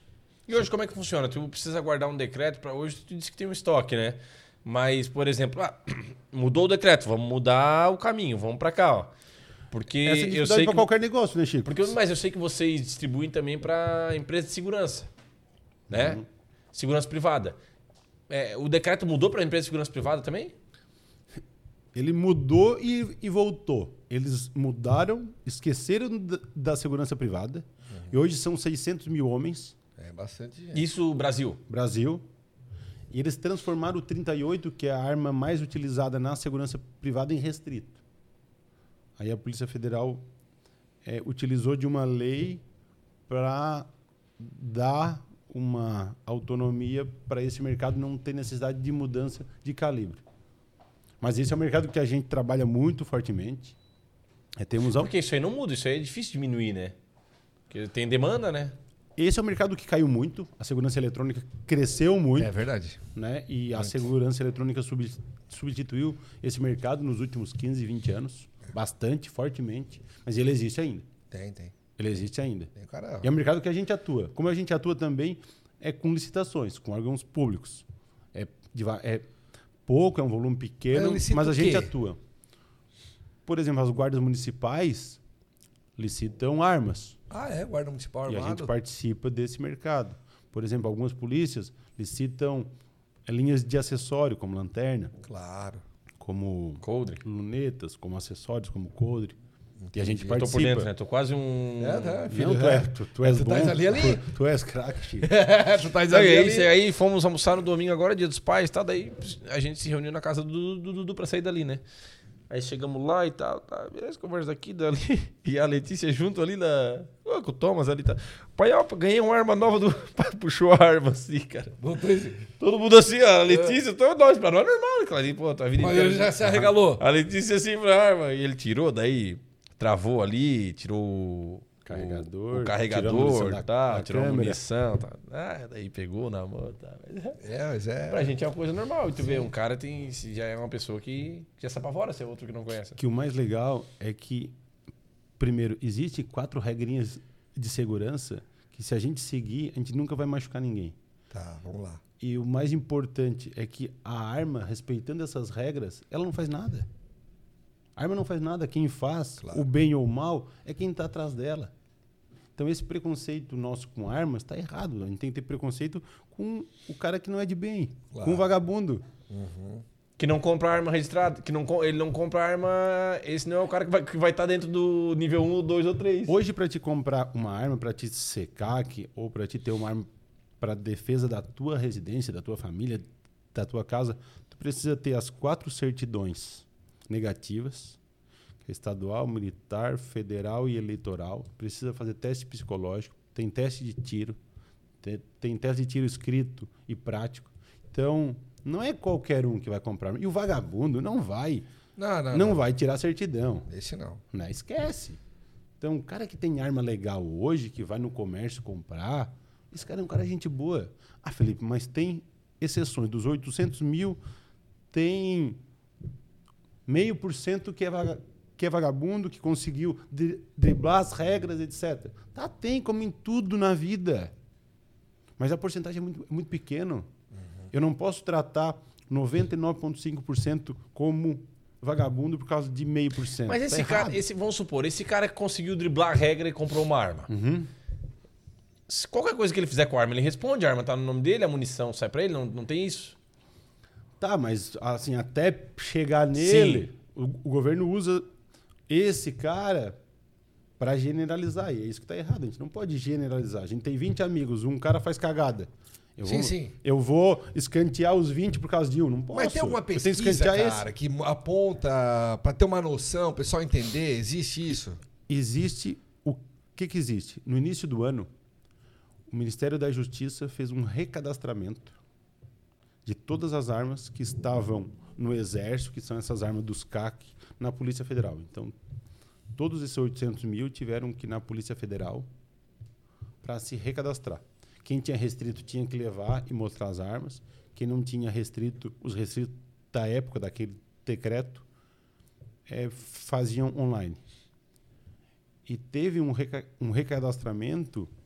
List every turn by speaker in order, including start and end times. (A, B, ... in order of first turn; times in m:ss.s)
0:00.5-0:09.1 A
0:09.7-0:10.9 A
0:10.0-0:12.0 B
0:11.6-0:15.1 A
0:15.9-0:16.2 B
0:15.9-0:16.2 A
0:16.7-0:17.5 A
0:18.3-0:20.5 A
0:21.9-0:29.7 B
0:30.0-0:30.8 C
0:30.7-0:31.6 A
0:31.7-0:32.2 B
0:33.1-0:38.0 B
0:39.2-0:40.2 B
0:41.0-0:42.6 B
0:43.3-0:50.2 B
0:51.2-0:53.8 B
0:54.6-0:55.1 B
0:54.9-0:56.9 A
0:57.7-0:58.7 A
0:59.2-1:02.5 B
1:02.4-1:03.0 C
1:03.1-1:11.1 B
1:03.8-1:04.0 C
1:11.3-1:11.7 C
1:12.0-1:12.7 B
1:12.7-1:13.3 C
1:13.2-1:19.3 B
1:19.9-1:22.2 B
1:20.9-1:21.9 C
1:23.4-1:25.2 B
1:26.0-1:27.2 B
1:27.3-1:28.7 C
1:28.3-1:32.7 B
1:33.2-1:35.1 B
1:35.2-1:35.8 C
1:36.2-1:39.4 B
1:36.8-1:37.2 A
1:39.8-1:40.3 C
1:39.9-1:40.9 B
1:40.1-1:42.2 A
1:41.8-1:44.2 C
1:42.3-1:45.3 B
1:45.2-1:46.7 C
1:46.1-1:51.8 A
1:52.5-2:01.7 A
2:01.8-2:02.5 C
2:02.6-2:17.4 A
2:03.5-2:03.8 C
2:05.8-2:07.0 C
2:11.8-2:14.6 B
2:17.4-2:18.3 C
2:18.1-2:23.0 A
2:23.0-2:24.5 B
2:25.4-2:31.0 B
2:31.3-2:32.0 C
2:32.2-2:36.9 B
2:38.0-2:41.7 B
2:42.6-2:49.0 B
2:48.1-2:48.5 C
2:49.3-2:49.8 C
2:50.2-2:56.3 A
2:56.2-3:00.1 B
3:00.6-3:08.0 B
3:08.6-3:14.4 B
3:15.0-3:21.7 B
3:22.0-3:22.6 C
3:22.3-3:23.7 B
3:23.7-3:24.2 C
3:24.3-3:25.2 B
3:25.8-3:34.2 B
3:34.9-3:35.6 B
3:36.8-3:44.3 B
3:45.4-3:47.1 B
3:47.7-3:54.2 B
3:53.5-3:57.3 A
3:57.3-3:57.7 B
3:58.9-4:03.1 A
4:04.2-4:08.2 B
4:06.4-4:06.8 A
4:08.9-4:10.0 B
4:10.8-4:20.8 B
4:16.2-4:16.7 C
4:19.3-4:25.0 C
4:25.3-4:28.3 B
4:29.3-4:32.0 B
4:33.0-4:38.8 B
4:39.5-4:42.3 B
4:43.4-4:51.6 B
4:52.7-4:54.2 B
4:55.6-4:58.1 B